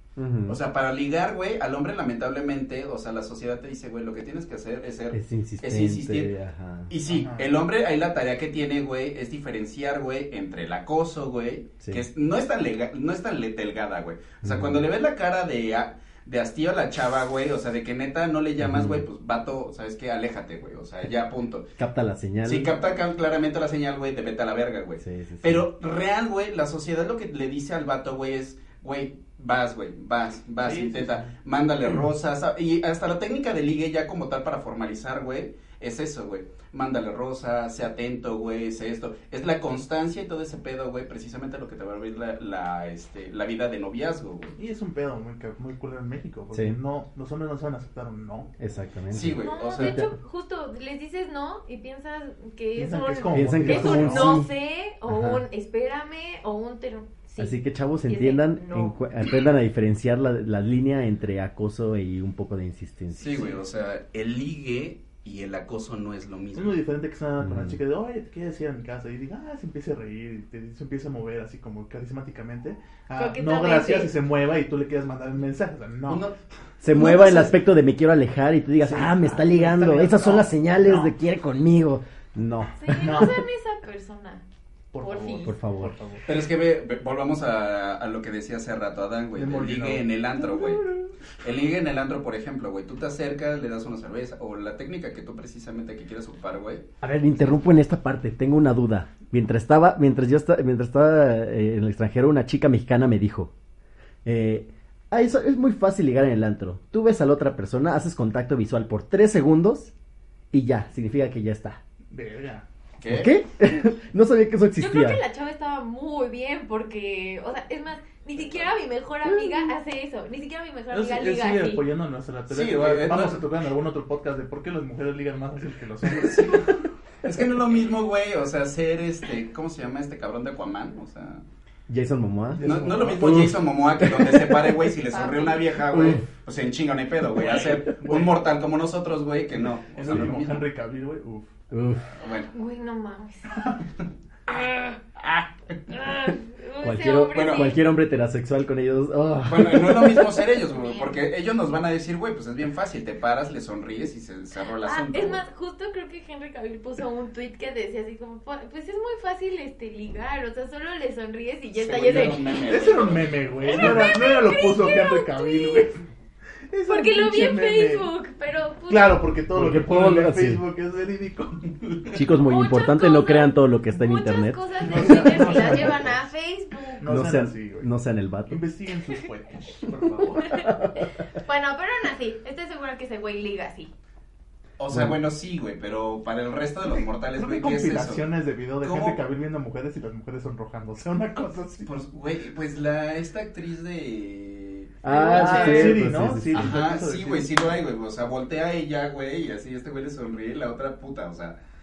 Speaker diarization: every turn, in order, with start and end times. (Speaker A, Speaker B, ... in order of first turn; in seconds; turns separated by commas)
Speaker A: 0.2-0.6, Speaker B: 0.5-6.3, Speaker A: 5.1-6.9, Speaker B: 6.9-21.7, Speaker C: 7.0-7.5, Speaker A: 14.4-14.8, Speaker A: 18.6-19.0, Speaker A: 21.8-22.7, Speaker B: 22.4-44.5, Speaker A: 25.0-25.6, Speaker C: 30.6-31.3, Speaker C: 44.6-48.5, Speaker A: 48.6-50.1, Speaker B: 49.1-50.0, Speaker D: 49.4-59.0, Speaker C: 52.7-54.4, Speaker A: 53.3-54.5, Speaker A: 55.1-55.4, Speaker A: 57.4-63.5, Speaker B: 63.1-66.8, Speaker C: 66.5-76.2, Speaker A: 67.4-67.8, Speaker D: 73.1-74.1, Speaker B: 76.1-76.3, Speaker A: 76.8-83.3, Speaker C: 77.0-77.5, Speaker C: 78.8-81.1, Speaker D: 82.8-84.4, Speaker C: 83.0-83.4, Speaker C: 84.9-86.2, Speaker D: 85.0-85.5, Speaker A: 85.4-85.9, Speaker B: 86.2-90.8, Speaker C: 89.3-91.1, Speaker B: 91.4-97.5, Speaker A: 97.0-103.5, Speaker A: 104.2-109.9, Speaker A: 110.5-111.8, Speaker C: 112.1-112.6, Speaker B: 113.0-113.3, Speaker A: 113.1-115.2, Speaker D: 114.8-121.8, Speaker B: 118.4-118.7, Speaker A: 119.3-119.7, Speaker C: 120.9-126.7, Speaker B: 122.5-123.4, Speaker B: 126.1-131.4, Speaker A: 131.9-134.9, Speaker C: 132.5-133.6, Speaker B: 132.6-140.7, Speaker D: 135.1-135.8, Speaker A: 135.9-136.2, Speaker C: 137.4-138.3, Speaker C: 139.6-141.5, Speaker A: 141.7-142.1, Speaker B: 142.2-142.5, Speaker D: 142.5-143.6, Speaker D: 144.5-145.0, Speaker D: 145.9-147.8, Speaker A: 146.8-150.4, Speaker B: 147.3-147.7, Speaker B: 149.4-155.4, Speaker D: 150.7-151.2, Speaker D: 154.8-162.7, Speaker B: 161.7-164.0, Speaker C: 162.7-166.0, Speaker D: 163.6-165.9, Speaker C: 166.7-168.1, Speaker D: 166.9-169.2, Speaker C: 168.9-171.7, Speaker A: 169.5-170.6, Speaker B: 171.8-172.1, Speaker A: 172.1-176.0, Speaker D: 172.4-177.1, Speaker C: 174.8-176.1, Speaker C: 177.0-177.9, Speaker A: 177.0-178.6, Speaker C: 178.5-180.7, Speaker D: 180.4-180.7, Speaker A: 180.5-181.1, Speaker D: 181.3-183.9, Speaker B: 184.8-188.3, Speaker C: 187.4-191.9, Speaker B: 188.8-189.2, Speaker B: 191.8-195.0, Speaker A: 195.0-196.8, Speaker D: 195.1-196.1, Speaker C: 195.2-197.7, Speaker B: 196.5-201.6